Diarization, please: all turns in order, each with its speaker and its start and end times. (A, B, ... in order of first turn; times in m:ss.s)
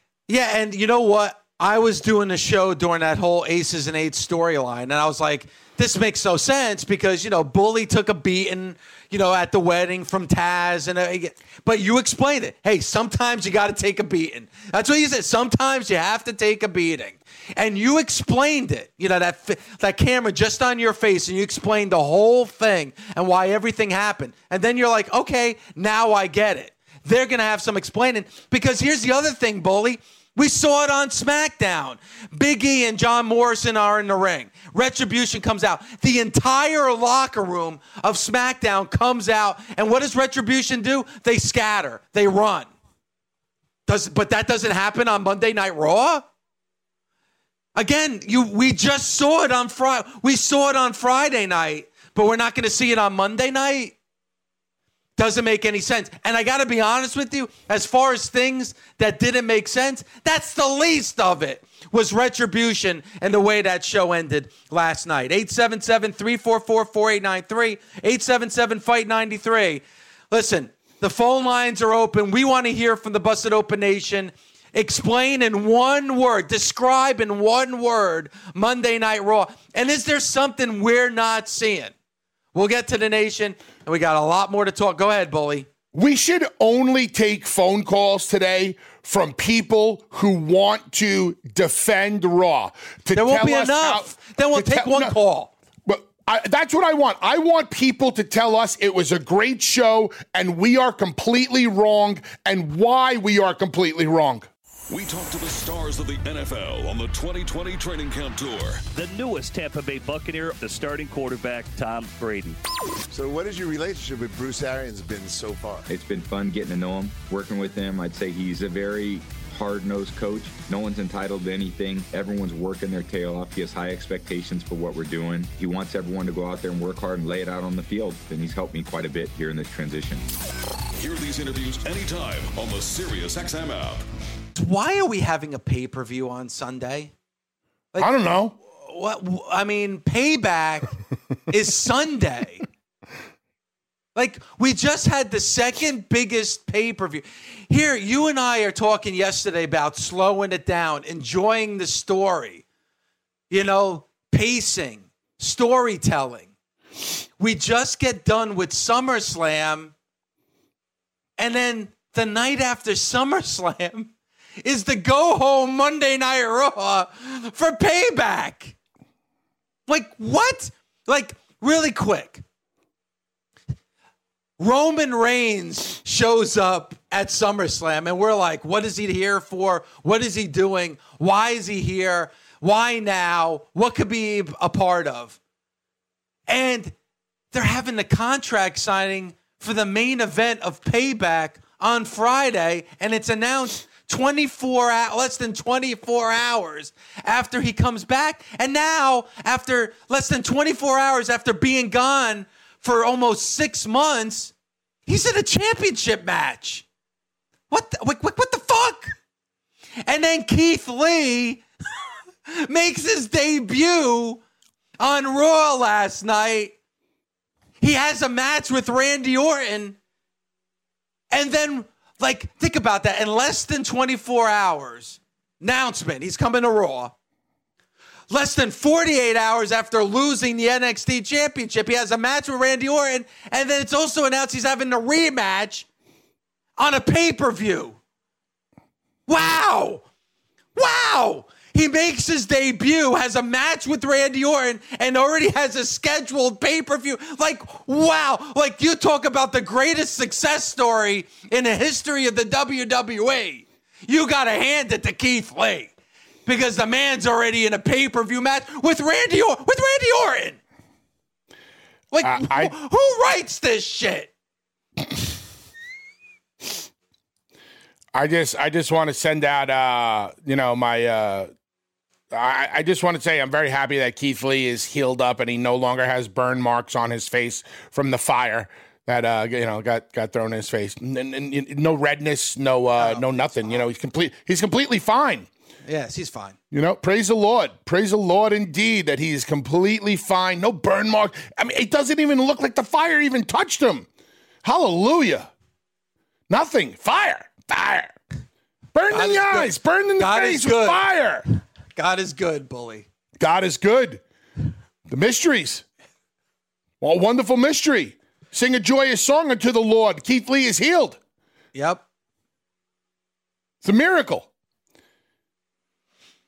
0:00.3-0:42.7 A
0:43.9-0:46.2 A
0:47.8-0:53.9 A
0:55.2-1:21.9 A
1:22.5-1:25.7 A
1:25.9-1:35.2 B
1:33.1-1:35.5 A
1:35.8-1:44.5 B
1:44.9-1:48.8 C
1:48.9-1:52.6 D
1:53.1-1:55.9 E
1:55.9-2:10.3 F
2:11.0-2:14.0 C
2:14.5-2:17.1 A
2:17.9-2:20.9 A
2:18.0-2:18.6 B
2:21.5-2:22.6 A
2:24.2-2:32.6 A
2:33.5-2:36.5 A
2:37.4-2:39.9 A
2:41.4-2:44.1 A
2:44.6-2:48.7 A
2:49.9-2:52.4 A
2:54.6-3:05.4 A
3:06.5-3:06.9 A
3:07.5-3:24.5 A
3:25.1-3:26.8 A
3:27.7-3:29.1 A
3:30.0-3:31.6 A
3:32.5-3:34.4 A
3:35.0-3:36.7 A
3:37.8-3:40.0 A
3:41.3-3:47.1 A
3:48.3-3:55.9 A
3:56.8-3:58.0 A
3:59.3-4:00.0 A
4:00.7-4:15.9 A
4:16.4-4:20.6 A
4:22.1-4:24.3 A
4:22.2-4:22.7 B
4:28.1-4:31.5 B
4:32.3-4:45.5 B
4:43.0-4:43.8 A
4:45.8-4:46.6 A
4:46.7-4:54.1 B
4:54.6-4:55.5 B
4:56.5-4:58.1 B
4:58.9-5:01.4 B
4:59.1-5:01.0 A
5:02.0-5:03.0 A
5:03.4-5:04.2 B
5:05.1-5:05.8 B
5:07.0-5:11.2 B
5:11.7-5:12.0 A
5:13.8-5:14.5 B